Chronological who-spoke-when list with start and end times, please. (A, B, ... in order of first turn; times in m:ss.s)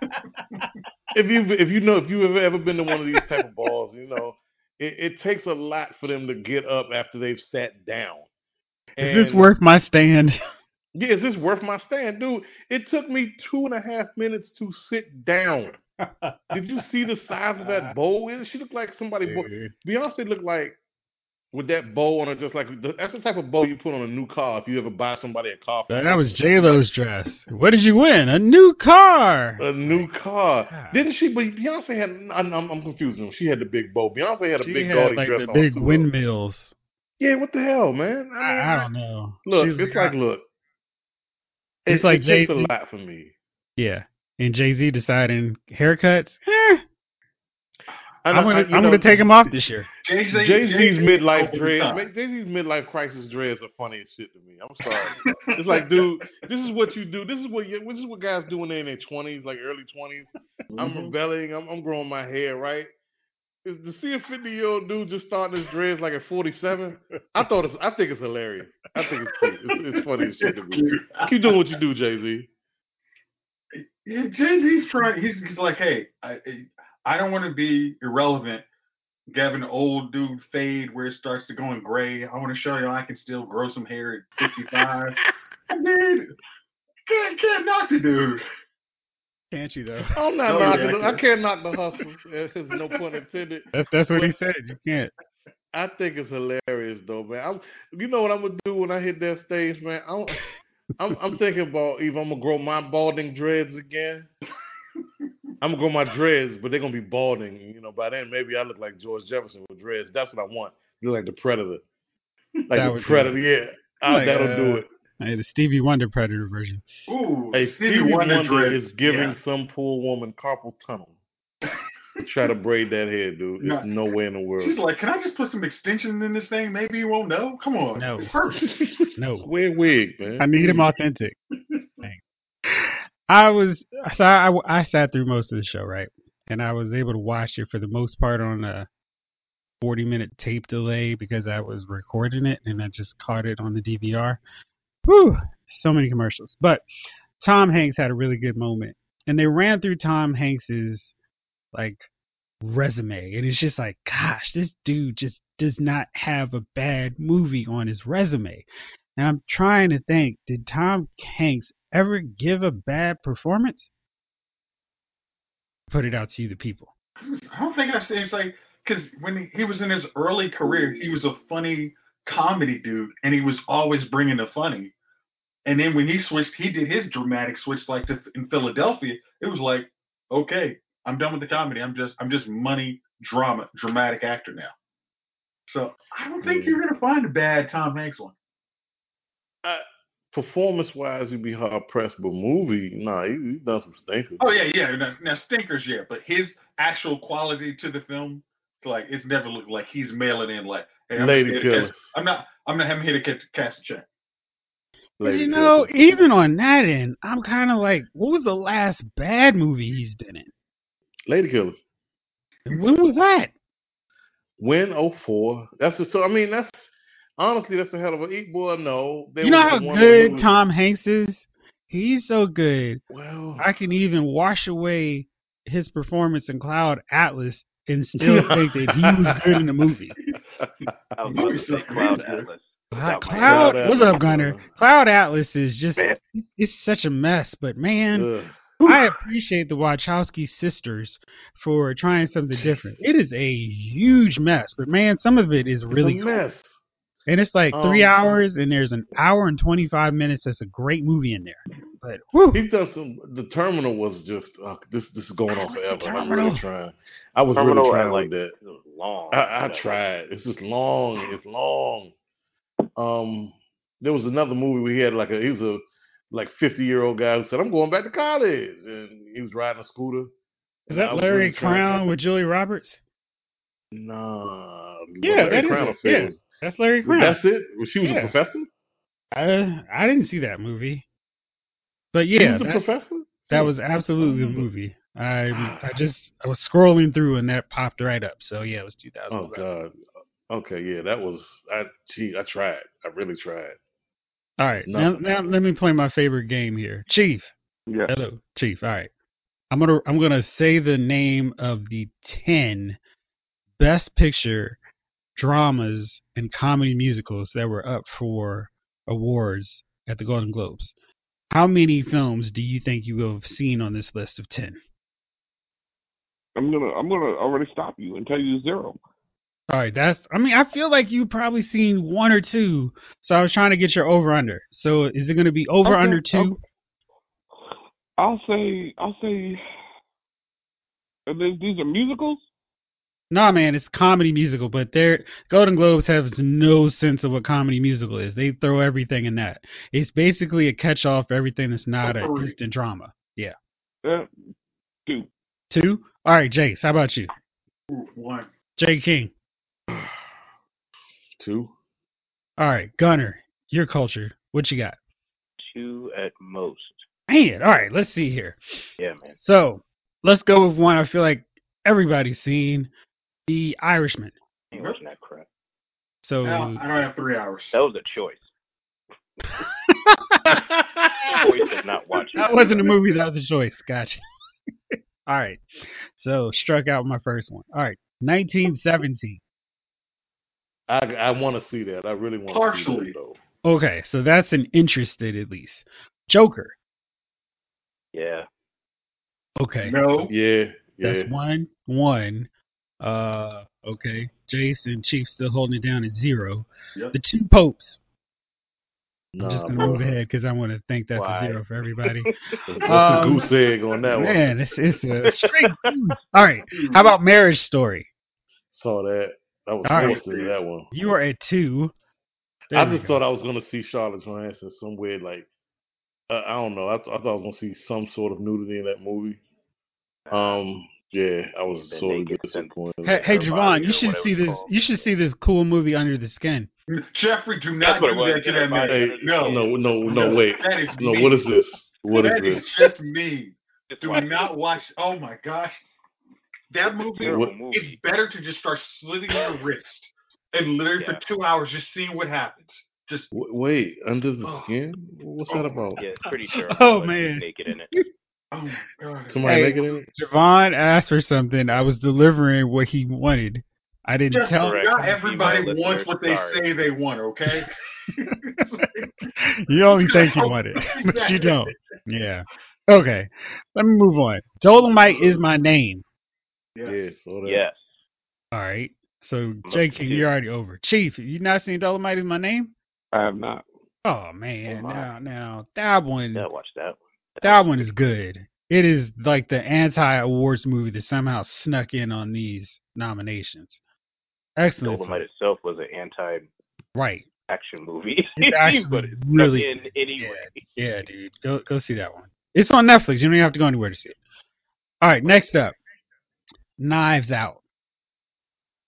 0:01.1-0:08.3 A
0:09.0-0:09.5 A
0:09.0-0:10.4 B
0:10.9-0:15.7 A
0:16.0-0:16.5 B
0:16.5-0:20.8 A
0:17.6-0:17.9 B
0:19.2-0:19.7 B
0:21.5-0:26.8 A
0:25.9-0:30.1 B
0:29.6-0:36.1 A
0:30.7-0:31.0 B
0:34.6-0:36.7 B
0:37.2-0:38.9 A
0:38.4-0:40.1 B
0:39.4-0:40.4 A
0:41.8-0:43.3 A
0:41.9-0:42.7 B
0:43.8-0:46.8 B
0:48.2-0:49.3 A
0:48.3-0:49.9 B
0:50.0-0:52.0 C
0:50.3-1:02.9 A
0:55.1-0:55.8 C
1:00.7-1:01.1 C
1:03.6-1:12.5 A
1:10.4-1:11.4 C
1:13.7-1:18.6 C
1:19.3-1:25.2 C
1:25.7-1:26.3 C
1:27.1-1:28.4 C
1:29.5-1:30.2 B
1:30.1-1:34.3 A
1:30.4-1:31.2 C
1:33.7-1:35.1 B
1:35.7-1:40.4 A
1:41.0-1:44.3 A
1:45.6-1:51.8 A
1:52.7-1:54.9 A
1:52.7-1:53.4 B
1:54.0-1:56.8 B
1:57.1-1:59.4 C
1:57.5-2:01.2 A
2:02.2-2:04.8 A
2:03.6-2:03.9 C
2:04.6-2:08.7 C
2:08.0-2:08.3 B
2:08.5-2:10.8 A
2:09.2-2:09.5 B
2:10.4-2:11.4 B
2:12.0-2:18.9 B
2:19.8-2:24.4 B
2:25.0-2:26.8 B
2:27.4-2:31.1 B
2:31.7-2:32.1 B
2:32.6-2:38.6 B
2:39.2-2:43.9 B
2:45.9-2:46.9 B
2:47.2-2:54.9 C
2:55.6-3:04.7 C
3:05.7-3:08.3 C
3:06.4-3:06.8 A
3:09.6-3:14.6 A
3:14.4-3:24.0 C
3:21.2-3:22.1 A
3:25.2-3:26.3 A
3:25.2-3:30.5 B
3:31.3-3:31.8 A
3:32.6-3:33.5 B
3:34.6-3:40.6 A
3:39.4-3:43.0 B
3:43.1-3:43.6 A
3:43.6-3:50.2 B
3:48.2-3:49.6 A
3:51.2-3:54.2 D
3:51.3-3:52.5 C
3:52.9-3:58.3 B
3:53.4-3:54.7 A
3:58.1-3:58.7 A
3:58.8-4:06.4 B
4:05.9-4:06.8 A
4:07.3-4:12.6 B
4:07.7-4:08.3 A
4:12.5-4:18.5 A
4:15.8-4:16.6 B
4:17.6-4:20.0 D
4:19.3-4:22.1 A
4:23.0-4:30.3 A
4:30.9-4:32.0 A
4:30.9-4:33.0 B
4:33.9-4:36.4 A
4:35.2-4:37.4 B
4:37.0-4:38.7 A
4:38.0-4:38.4 B
4:39.3-4:41.0 B
4:42.1-4:42.9 B
4:42.3-4:44.7 A
4:43.5-4:49.6 B
4:45.5-4:45.9 A
4:49.3-4:50.0 A
4:50.5-4:53.8 A
4:54.6-4:57.5 B
4:54.8-4:55.2 A
4:57.9-4:58.1 E
4:58.1-4:59.1 B
4:59.7-5:03.0 B
5:03.8-5:04.8 B
5:05.3-5:10.9 B
5:11.5-5:14.8 B
5:16.6-5:19.0 E
5:19.7-5:26.6 B
5:25.8-5:26.6 E
5:28.2-5:29.6 E
5:31.3-5:32.5 E
5:33.3-5:43.6 B
5:42.0-5:42.6 C
5:44.0-5:44.3 E
5:45.7-5:47.3 B
5:47.9-5:48.5 C
5:48.8-5:49.3 B
5:51.4-5:51.7 A
5:52.6-5:55.0 B
5:55.6-5:57.0 D
5:57.3-5:58.6 B
5:59.0-5:59.4 D
5:59.4-6:02.9 B
6:03.5-6:04.3 B
6:04.7-6:05.5 D
6:04.7-6:05.0 C
6:06.2-6:06.8 B
6:06.4-6:07.8 C
6:07.7-6:08.5 D
6:09.6-6:11.4 B
6:11.3-6:12.9 D
6:12.3-6:14.2 B
6:15.2-6:15.6 B
6:16.1-6:19.4 B
6:20.9-6:23.4 A
6:22.5-6:23.1 C
6:23.6-6:26.7 B
6:28.1-6:28.5 D
6:29.6-6:30.3 B
6:29.8-6:30.3 C
6:30.3-6:31.3 A
6:31.0-6:32.5 B
6:33.0-6:38.0 B
6:39.3-6:40.1 A
6:39.4-6:42.3 B
6:41.1-6:42.3 D
6:42.7-6:44.6 A
6:42.8-6:43.6 C
6:42.8-6:43.5 B
6:44.1-6:48.1 B
6:45.2-6:45.9 D
6:46.7-6:47.1 C
6:48.7-6:50.9 A
6:49.8-6:50.2 B
6:49.9-6:50.6 C
6:50.9-6:51.9 B
6:52.7-6:53.2 B
6:52.7-6:55.5 A
6:56.3-6:59.4 A
7:00.2-7:00.6 D
7:00.3-7:03.4 A
7:01.8-7:04.7 D
7:03.0-7:06.7 B
7:06.9-7:11.4 C
7:07.8-7:10.4 D
7:08.8-7:12.9 A
7:12.1-7:15.8 C
7:13.9-7:14.5 D
7:16.7-7:23.3 C
7:17.0-7:18.0 D
7:17.2-7:17.5 A
7:23.3-7:26.0 A
7:24.4-7:24.7 C
7:25.5-7:26.0 C
7:26.0-7:27.9 D
7:26.7-7:28.0 B
7:28.5-7:29.8 C
7:29.3-7:30.1 A
7:29.4-7:35.2 B
7:34.3-7:39.3 C
7:34.6-7:36.7 D
7:38.3-7:46.0 B
7:39.9-7:41.8 C
7:46.7-7:47.1 C
7:46.8-7:47.6 A
7:47.4-7:47.8 D
7:48.5-7:52.7 B
7:49.6-7:50.3 D
7:53.1-7:53.6 E
7:54.0-7:56.5 B
7:54.7-7:55.1 D
7:56.3-7:57.9 D
7:57.4-8:03.8 B
8:04.6-8:05.2 B
8:04.8-8:06.5 D
8:06.9-8:07.2 B
8:07.5-8:10.6 D
8:08.4-8:14.2 B
8:15.0-8:15.8 B
8:16.8-8:17.6 B